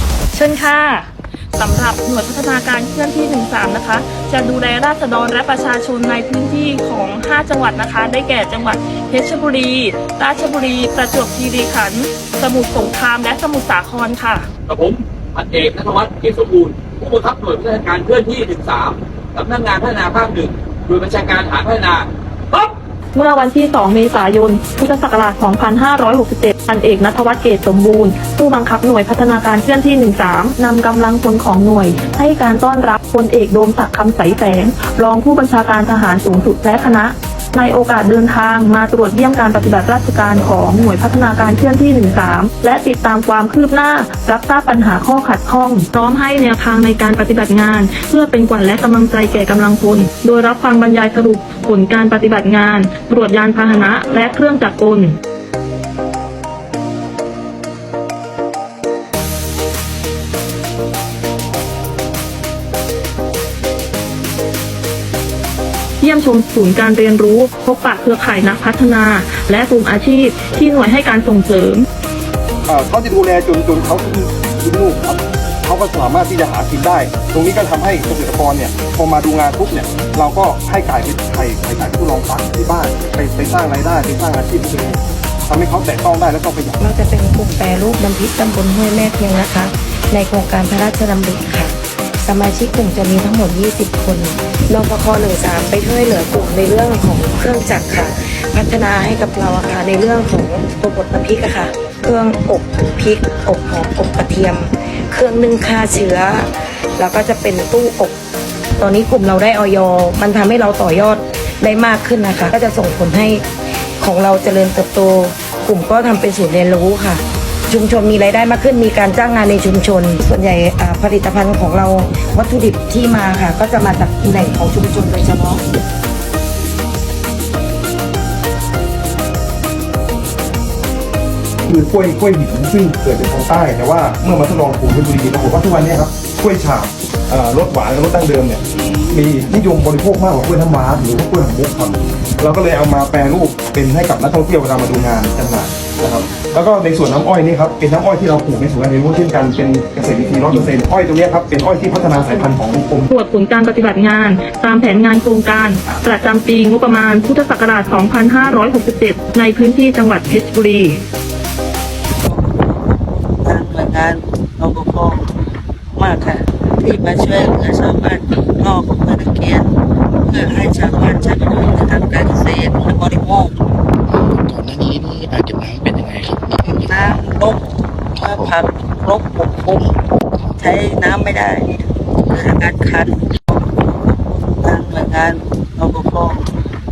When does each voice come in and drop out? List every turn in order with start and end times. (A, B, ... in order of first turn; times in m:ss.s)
0:00.3-0:14.5 A
0:14.7-0:22.7 B
0:23.1-0:55.2 A
1:06.0-1:11.9 A
1:12.7-1:26.8 C
1:26.8-1:48.2 D
1:48.8-1:53.4 D
1:54.0-2:05.6 D
2:11.7-2:33.1 C
2:33.1-2:41.0 A
2:42.2-2:45.2 E
2:46.0-2:49.7 E
2:50.2-2:53.5 E
2:54.1-2:57.3 F
2:56.9-2:57.6 E
2:58.2-2:58.5 F
2:58.2-2:59.9 E
3:00.6-3:01.7 E
3:02.3-3:06.4 E